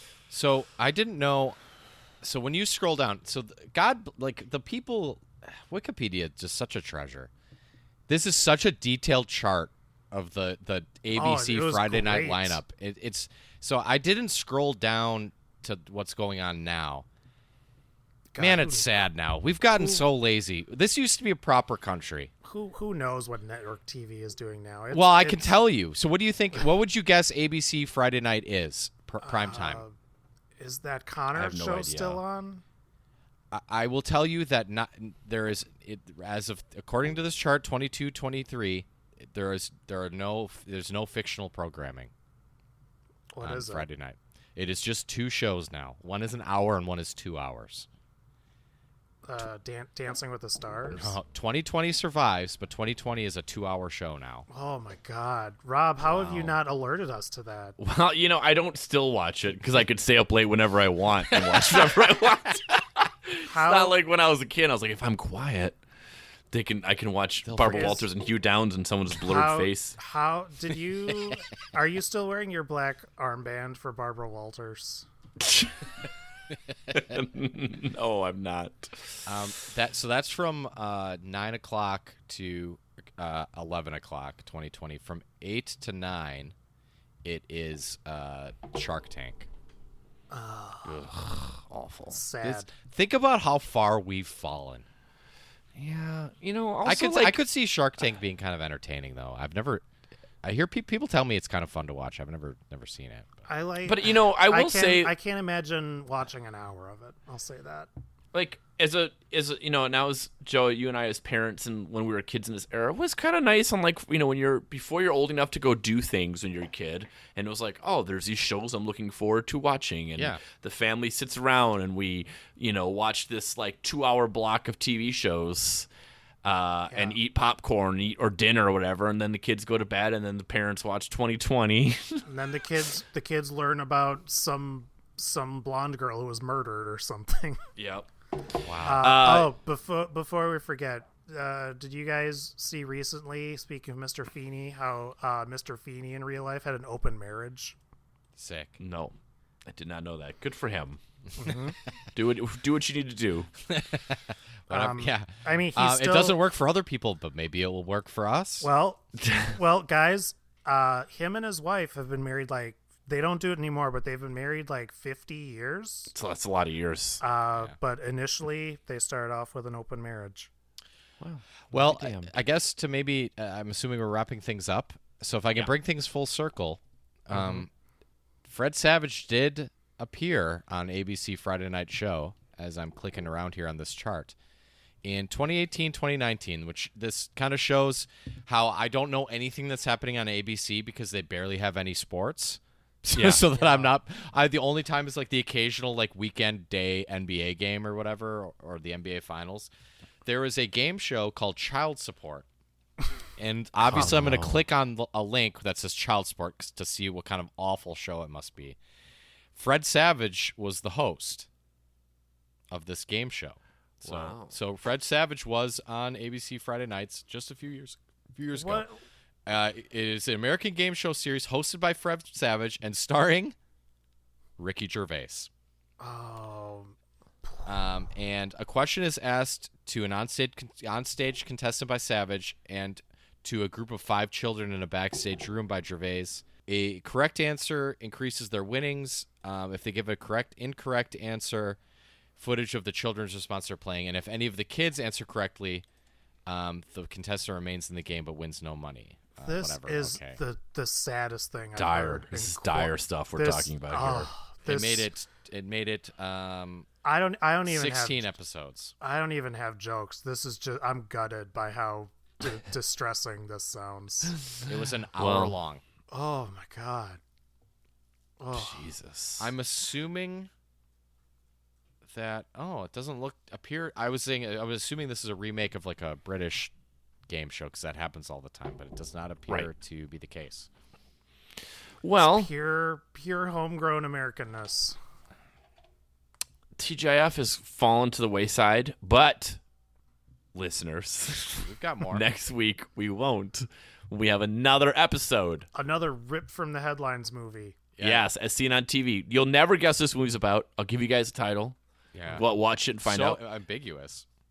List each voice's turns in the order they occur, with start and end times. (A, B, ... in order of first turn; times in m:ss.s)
0:00.3-0:01.6 A
0:02.2-0:07.3 A
0:08.1-0:17.0 A
0:11.1-0:12.6 B
0:18.3-0:18.9 B
0:18.4-0:22.3 A
0:19.8-0:20.0 B
0:22.4-0:25.5 B
0:24.9-0:29.8 A
0:29.2-0:29.9 B
0:30.6-0:32.6 B
0:31.3-0:32.2 C
0:33.5-0:42.1 A
0:43.3-0:43.8 B
0:43.4-0:47.9 A
0:49.2-0:51.2 B
0:50.9-0:54.4 A
0:54.5-0:57.8 B
0:56.0-0:56.5 A
0:57.8-1:05.8 C
1:01.3-1:02.2 A
1:03.4-1:04.0 B
1:06.5-1:10.0 C
1:07.4-1:08.0 A
1:07.7-1:08.1 B
1:09.2-1:15.1 B
1:15.4-1:15.9 C
1:16.9-1:19.3 C
1:19.2-1:26.5 A
1:27.2-1:29.5 A
1:30.3-1:31.1 B
1:30.8-1:32.2 C
1:32.1-1:32.7 B
1:32.4-1:34.8 A
1:35.8-1:37.4 C
1:36.8-1:39.8 A
1:40.4-1:43.4 A
1:43.5-1:47.9 B
1:43.8-1:45.1 C
1:48.3-2:05.9 C
2:06.4-2:12.2 C
2:06.9-2:07.2 B
2:12.2-2:17.6 B
2:17.8-2:18.1 C
2:18.6-2:19.1 A
2:18.8-2:27.8 B
2:18.9-2:19.5 C
2:28.4-2:28.8 A
2:28.8-2:29.1 C
2:29.6-2:31.0 C
2:31.4-2:31.8 B
2:32.1-2:33.5 C
2:33.6-2:38.7 A
2:34.7-2:36.4 B
2:38.6-2:46.1 B
2:39.2-2:39.6 C
2:46.1-2:47.2 C
2:47.2-2:50.5 B
2:51.2-2:52.4 C
2:51.7-2:57.7 A
2:58.4-3:04.4 A
3:05.0-3:19.7 A
3:13.1-3:13.4 C
3:13.4-3:13.9 B
3:20.2-3:22.4 A
3:23.4-3:28.8 A
3:23.9-3:24.6 C
3:29.5-3:31.5 A
3:32.7-3:38.8 A
3:34.0-3:34.6 C
3:38.5-3:39.0 B
3:39.4-3:43.6 A
3:44.6-3:45.5 A
3:46.0-3:47.7 B
3:47.6-4:01.8 A
4:02.4-4:05.8 A
4:06.4-4:10.4 A
4:09.4-4:15.1 B
4:11.8-4:14.3 C
4:14.6-4:16.9 A
4:17.0-4:18.3 B
4:17.6-4:18.9 A
4:19.0-4:24.4 B
4:24.7-4:25.8 A
4:25.2-4:25.6 C
4:26.1-4:27.2 B
4:28.4-4:28.9 B
4:28.5-4:29.5 C
4:29.4-4:30.5 A
4:32.0-4:36.7 A
4:37.3-4:40.7 A
4:42.0-4:42.5 C
4:42.2-4:45.0 B
4:46.8-4:49.6 C
4:50.5-4:55.7 C
4:51.6-4:52.2 A
4:55.7-4:57.8 B
4:58.0-4:58.2 A
4:58.0-5:01.8 C
5:02.1-5:02.5 A
5:02.3-5:03.4 C
5:03.0-5:04.2 A